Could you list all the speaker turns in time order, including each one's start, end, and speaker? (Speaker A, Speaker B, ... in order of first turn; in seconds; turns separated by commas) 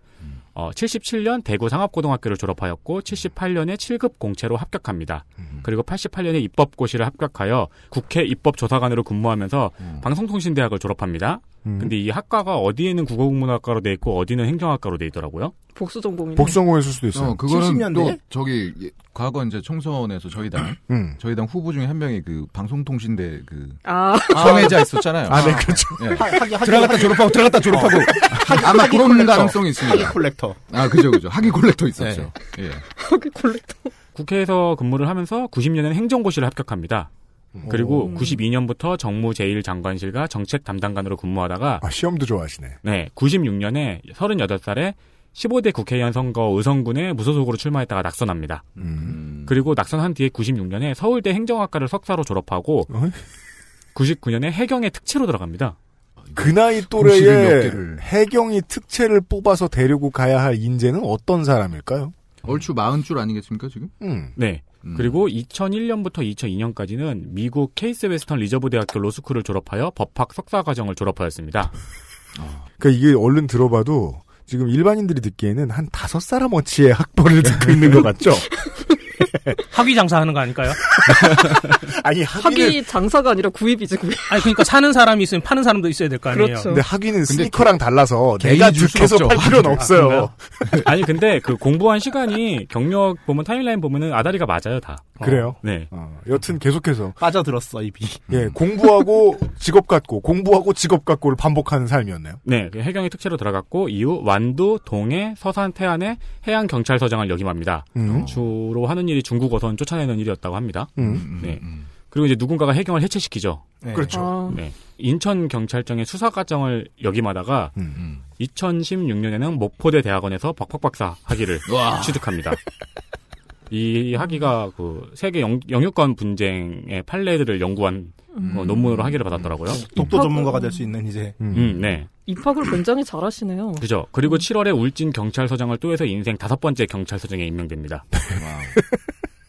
Speaker A: 0.5-15.5, Speaker B: 11.6-11.9, Speaker C: 15.7-16.6, Speaker B: 16.3-17.4, Speaker D: 17.1-32.8, Speaker E: 17.5-18.2, Speaker B: 20.9-21.2, Speaker C: 23.8-24.9, Speaker E: 24.3-30.6, Speaker B: 25.2-26.4, Speaker E: 32.0-32.3, Speaker C: 33.0-33.9, Speaker A: 34.1-37.1, Speaker B: 37.5-38.3, Speaker A: 37.7-41.8, Speaker C: 38.1-38.4, Speaker B: 41.8-42.8, Speaker A: 42.8-48.6, Speaker D: 48.8-49.5, Speaker B: 48.8-49.2, Speaker A: 49.4-52.9, Speaker B: 52.9-53.2, Speaker A: 53.9-55.8, Speaker D: 56.2-58.0, Speaker B: 56.4-62.1, Speaker D: 62.4-63.9, Speaker B: 64.0-64.3, Speaker A: 64.3-71.7, Speaker D: 64.8-65.2, Speaker D: 72.4-72.6, Speaker B: 72.8-78.5, Speaker F: 79.7-80.9, Speaker B: 81.0-82.9, Speaker C: 82.4-84.5, Speaker F: 84.3-86.7, Speaker C: 86.3-86.8, Speaker B: 86.6-90.8, Speaker D: 87.3-87.7, Speaker D: 88.4-90.0, Speaker F: 89.9-90.3, Speaker A: 90.8-95.9, Speaker B: 95.2-97.2, Speaker E: 97.2-98.2, Speaker B: 98.3-102.4, Speaker A: 102.4-113.6, Speaker B: 108.0-108.3, Speaker D: 108.1-108.4, Speaker B: 111.0-111.3, Speaker D: 111.0-111.9, Speaker E: 113.8-114.2, Speaker B: 113.9-114.4, Speaker C: 114.1-114.6, Speaker A: 114.5-117.8, Speaker A: 118.4-122.6, Speaker D: 121.7-122.3, Speaker A: 123.7-129.8, Speaker C: 128.3-128.6, Speaker D: 128.4-130.1, Speaker E: 129.7-131.4, Speaker C: 129.9-130.9, Speaker B: 131.4-131.8, Speaker A: 131.5-132.1, Speaker C: 132.2-134.3, Speaker A: 133.8-138.1, Speaker B: 138.3-138.9, Speaker D: 138.3-138.8